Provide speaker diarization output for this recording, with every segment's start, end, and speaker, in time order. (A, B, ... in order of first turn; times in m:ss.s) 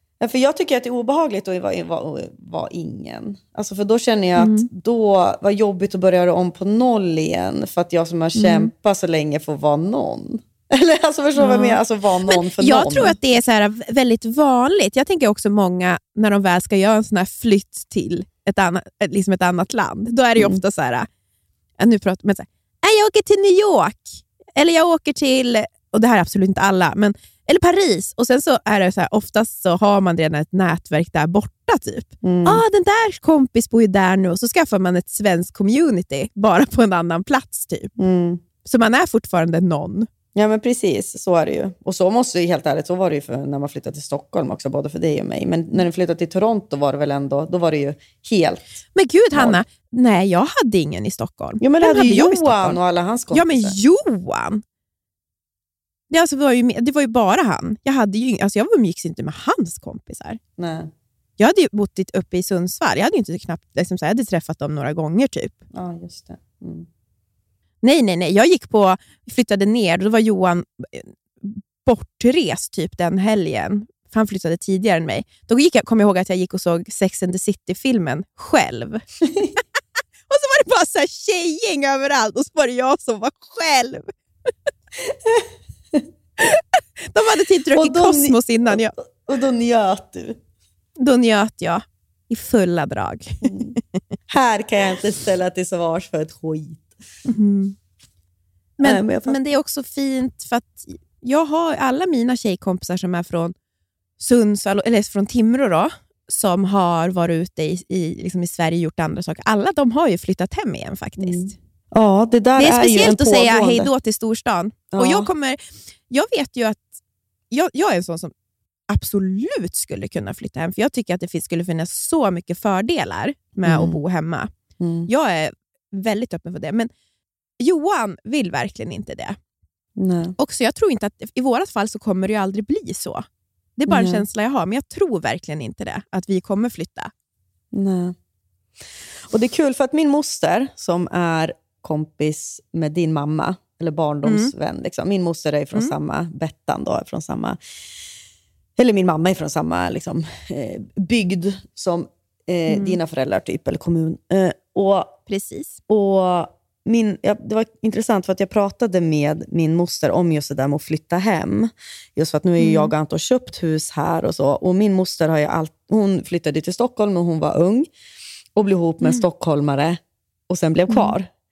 0:00.2-0:13.3 A
0:04.4-0:04.7 B
0:08.4-0:08.7 B
0:11.4-0:11.8 B
0:12.3-0:21.1 B
0:21.8-0:37.9 B
0:32.2-0:32.6 A
0:38.0-0:38.4 A
0:38.6-0:40.1 B
0:40.4-0:48.6 A
0:49.0-0:52.8 B
0:49.3-0:49.6 A
0:51.6-0:53.8 A
0:53.3-0:54.6 B
0:56.1-1:00.4 B
1:00.6-1:00.9 A
1:01.4-1:05.6 B
1:05.7-1:06.9 A
1:07.8-1:19.0 B
1:20.3-1:24.1 B
1:25.3-1:26.0 A
1:26.4-1:28.9 B
1:27.8-1:30.4 A
1:31.0-1:34.0 B
1:33.4-1:33.8 A
1:34.3-1:37.0 A
1:37.3-1:37.8 B
1:38.8-1:43.5 B
1:38.8-1:39.4 A
1:44.2-1:51.5 B
1:51.2-1:53.9 A
1:52.6-1:56.9 B
1:54.9-1:55.3 A
1:57.5-1:58.3 B
1:58.9-2:04.5 B
2:03.6-2:04.0 A
2:04.8-2:05.1 A
2:05.1-2:06.9 B
2:07.6-2:09.4 B
2:10.0-2:10.4 A
2:10.4-2:13.3 B
2:13.8-2:17.1 B
2:13.9-2:14.3 A
2:17.7-2:18.2 A
2:19.3-2:27.6 A
2:24.2-2:24.5 B
2:28.8-2:35.2 A
2:32.7-2:33.0 B
2:35.3-2:35.8 B
2:35.9-2:47.9 A
2:42.6-2:42.9 B
2:48.6-2:51.3 A
2:50.9-2:51.1 B